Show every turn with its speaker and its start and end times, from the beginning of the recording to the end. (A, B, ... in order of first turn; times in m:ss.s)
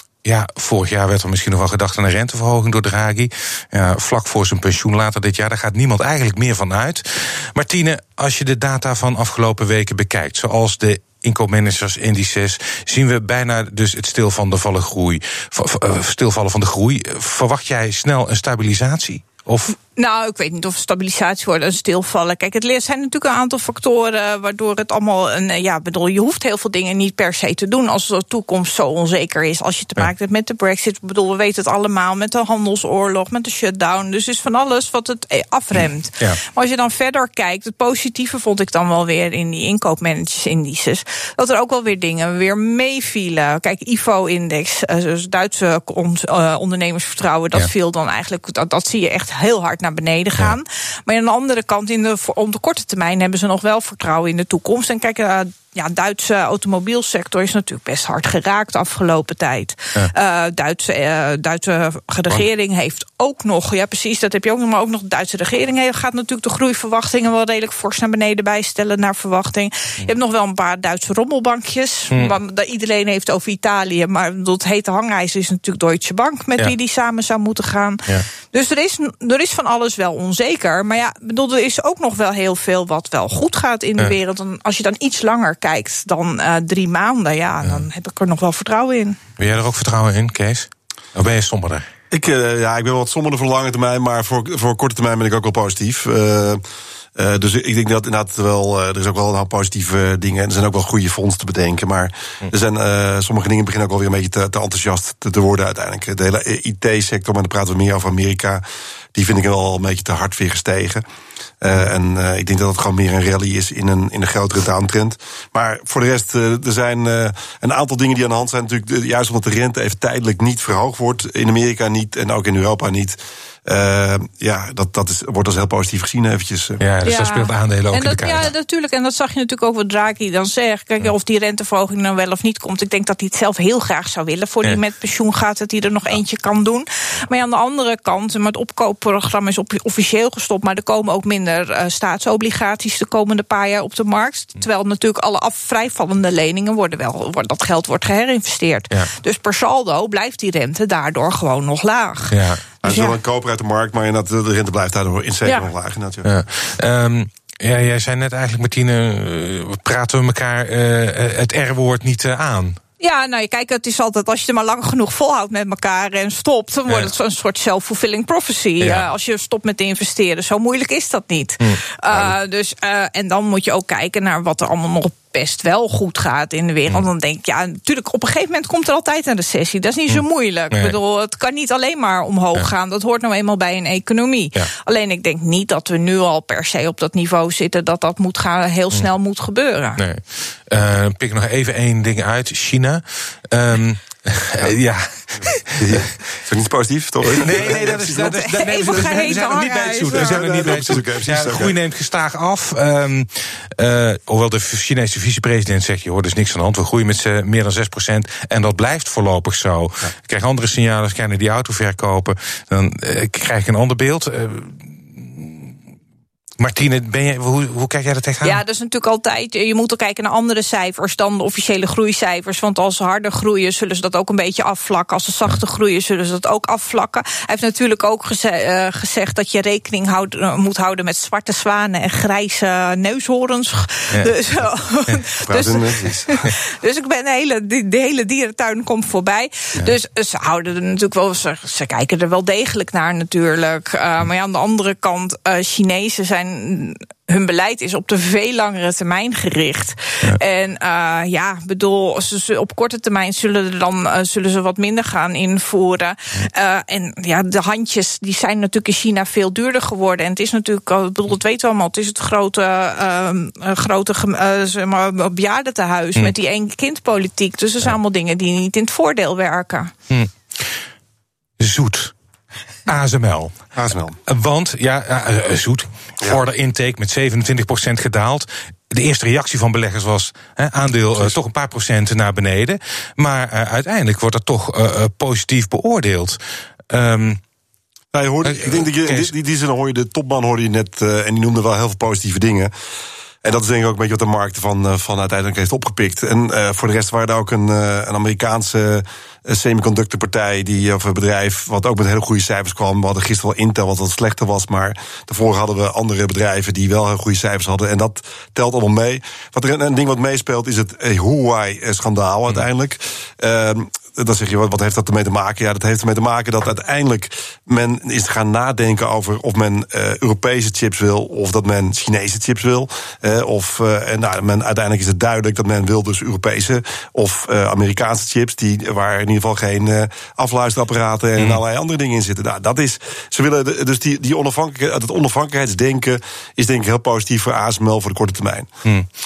0:00.2-0:19.8 A
0:19.9-1:29.2 B
0:35.8-0:36.4 A
1:29.4-1:31.9 A
1:32.1-1:36.6 C
1:37.2-1:48.6 C
1:49.2-1:51.0 C
1:51.6-2:06.8 C
2:06.8-2:08.5 A
2:07.0-2:33.2 B
2:32.3-2:32.7 A
2:32.8-2:36.3 C
2:36.2-2:42.8 A
2:43.0-3:10.0 B
2:48.8-2:49.1 A
2:51.6-2:52.3 A
3:00.1-3:01.0 A
3:10.0-3:16.2 A
3:15.8-3:19.1 C
3:17.3-3:35.8 A
3:18.2-3:20.5 B
3:20.1-3:21.8 C
3:36.6-3:38.6 A
3:38.4-4:29.9 B
3:55.5-3:56.3 C
4:31.6-4:32.1 A
4:32.9-4:33.6 A
4:33.8-4:34.2 C
4:34.3-4:46.4 A
4:46.9-4:47.4 A
4:48.1-4:52.7 C
4:48.4-4:49.3 A
4:53.4-5:38.7 C